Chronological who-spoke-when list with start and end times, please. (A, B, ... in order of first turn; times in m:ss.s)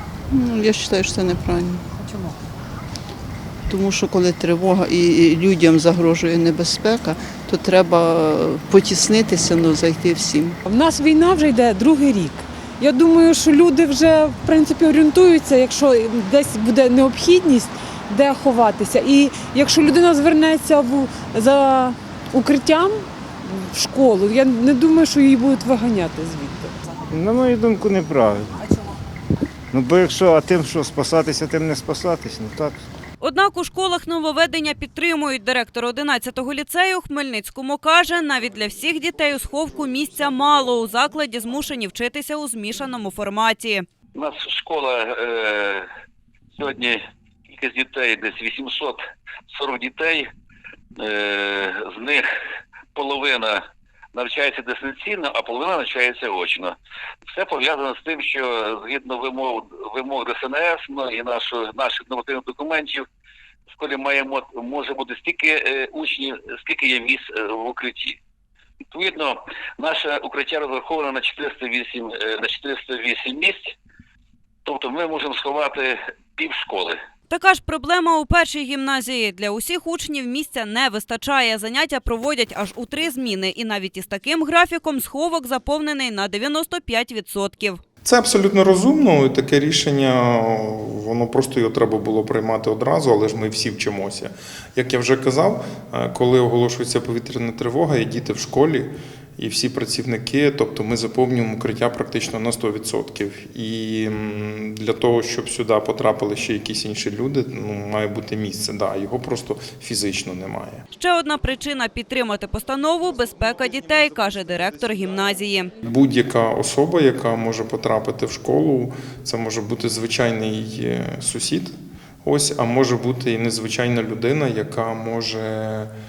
0:00.3-0:01.8 A
0:03.7-0:10.6 A
0:10.7-0:23.0 B
0:23.6-0:26.7 B
0:27.1-0:28.7 C
0:29.7-0:32.8 C
0:33.2-0:43.8 D
0:44.1-0:45.8 E
0:46.6-0:50.3 E
0:51.0-0:52.2 E
0:52.9-0:53.6 E
0:54.1-0:56.8 E
0:57.3-1:03.0 E
1:03.7-1:08.2 E
1:08.9-1:13.7 E
1:14.6-1:17.0 E
1:17.3-1:27.8 D
1:28.0-1:50.8 F
1:51.0-1:55.7 D
1:53.0-2:01.7 F
2:02.2-2:05.9 F